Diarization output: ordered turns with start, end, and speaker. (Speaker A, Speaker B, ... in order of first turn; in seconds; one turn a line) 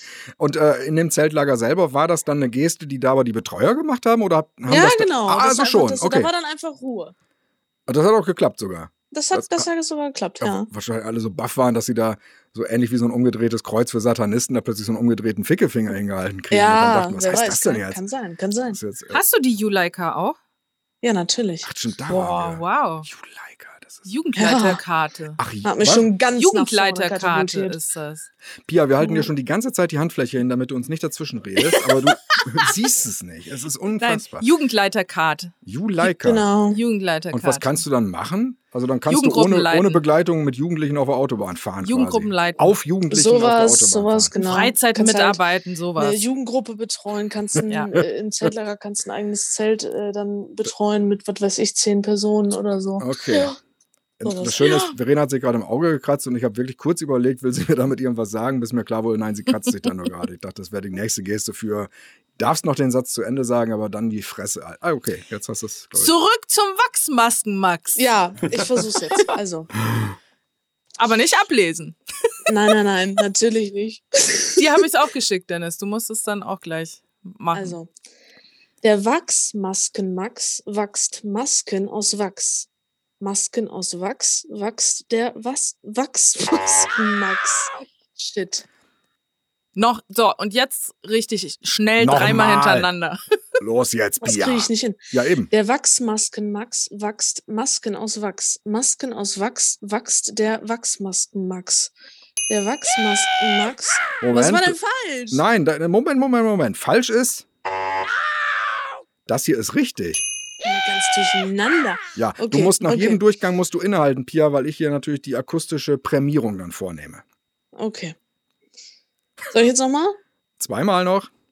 Speaker A: 0.4-6.3
Speaker B: 4.7-7.1
Speaker A: 7.9-9.7
Speaker B: 9.1-10.7
Speaker A: 10.4-18.0
Speaker B: 16.5-18.8
Speaker A: 18.7-19.2
Speaker C: 19.1-20.4
Speaker B: 21.0-21.7
Speaker A: 21.6-24.1
Speaker C: 22.1-23.1
Speaker C: 24.1-25.4
Speaker B: 24.4-24.8
Speaker A: 25.4-26.1
Speaker B: 25.6-27.8
Speaker C: 26.4-28.3
Speaker A: 28.7-34.5
Speaker B: 29.0-29.3
Speaker C: 32.3-32.7
Speaker C: 34.0-35.5
Speaker A: 35.6-36.5
Speaker B: 36.2-36.8
Speaker C: 36.7-37.8
Speaker A: 37.3-44.3
Speaker C: 39.1-40.0
Speaker C: 41.8-42.8
Speaker B: 43.1-45.4
Speaker C: 44.4-46.2
Speaker B: 46.0-53.6
Speaker C: 47.7-47.9
Speaker A: 53.0-53.5
Speaker A: 54.2-66.1
Speaker B: 54.2-54.6
Speaker C: 54.6-54.9
Speaker C: 66.0-68.0
Speaker B: 68.0-69.7
Speaker C: 71.0-72.0
Speaker B: 72.5-74.7
Speaker C: 74.6-77.8
Speaker B: 77.5-77.9
Speaker B: 78.8-82.7
Speaker B: 83.2-88.7
Speaker C: 89.8-93.2
Speaker A: 92.0-92.9
Speaker A: 93.6-95.5
Speaker B: 94.2-95.0
Speaker B: 95.5-101.9
Speaker B: 102.5-105.4
Speaker A: 104.2-104.8
Speaker A: 105.3-107.5
Speaker A: 109.3-110.2
Speaker B: 110.6-113.2
Speaker A: 112.2-117.2
Speaker B: 117.8-118.2
Speaker B: 119.5-120.2
Speaker A: 120.6-121.3